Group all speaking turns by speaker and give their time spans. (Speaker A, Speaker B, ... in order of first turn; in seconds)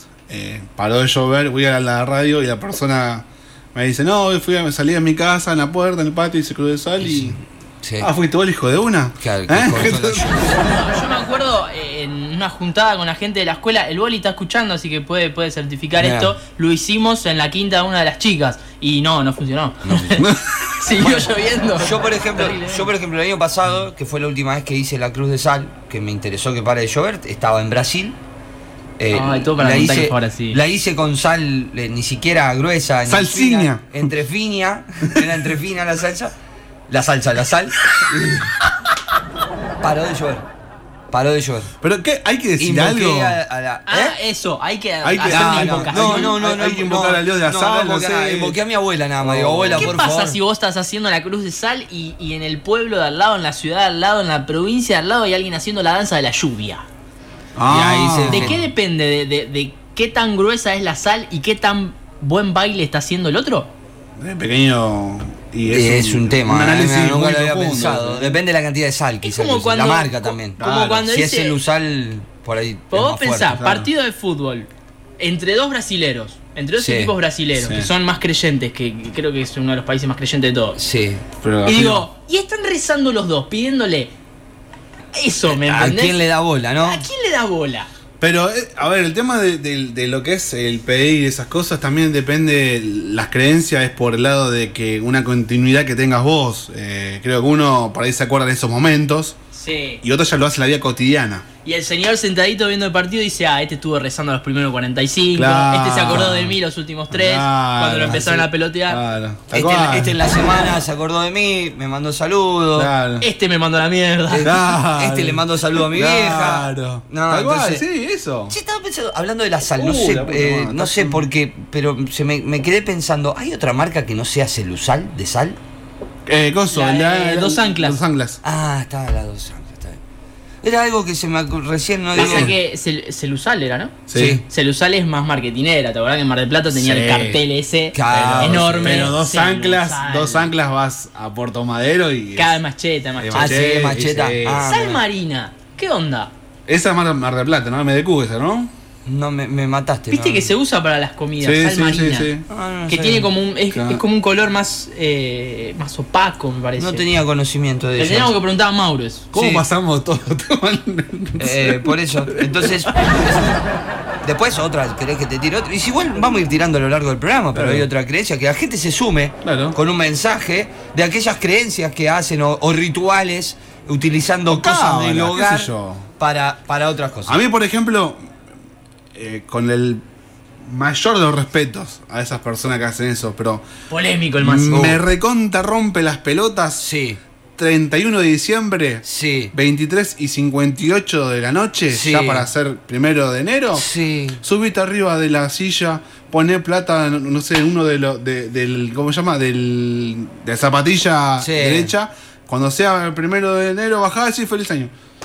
Speaker A: 0.3-7.4, 8.0-10.3, 20.2-20.7, 33.1-34.1, 35.1-35.4, 41.8-43.4, 45.0-48.6, 49.2-49.9, 57.6-58.6, 64.2-68.4, 70.6-71.1, 73.5-73.9, 77.6-77.9, 81.4-82.1, 88.2-99.4, 100.0-101.5, 105.3-106.6, 107.1-110.2, 112.8-113.3, 114.4-118.5, 119.8-121.3, 126.2-128.4, 132.2-132.6, 134.1-134.4, 136.7-137.4, 138.1-142.6, 143.2-144.7, 146.7-148.7, 151.4-152.4, 153.7-154.0, 159.3-162.9, 167.5-167.9, 169.4-169.8, 174.5-176.1, 177.2-178.2, 179.2-180.0, 180.6-183.7, 184.4-186.8, 187.6-193.8, 194.4-204.9
Speaker B: 7.0-8.1, 9.2-10.6, 16.0-16.3, 19.8-20.2, 21.0-28.2, 29.0-36.3, 36.9-38.5, 39.8-40.5, 41.1-41.7, 42.6-44.1, 45.2-50.4, 57.7-58.6, 65.7-73.6, 76.8-77.1, 80.8-81.2, 85.5-87.0, 109.5-112.9, 114.3-117.8, 118.5-125.6, 128.4-130.0, 130.6-132.5, 134.1-134.4, 137.9-139.1, 143.3-145.0, 149.1-150.5, 152.5-153.3, 156.8-158.3, 161.4-163.6, 164.2-177.4, 184.7-185.0, 186.8-187.2, 189.0-189.5, 191.9-192.5, 193.7-194.4, 201.4-201.9
Speaker C: 10.6-22.9, 29.1-30.6, 43.9-46.4, 49.8-56.8, 58.3-63.7, 69.2-71.6, 72.9-80.8, 81.6-84.1, 85.1-86.3, 86.8-87.9, 99.5-100.0, 101.6-109.0, 113.2-114.6, 126.7-128.0, 132.1-140.5, 142.3-143.6, 144.6-146.3, 150.1-152.3, 152.9-157.1, 158.0-159.6, 183.9-185.0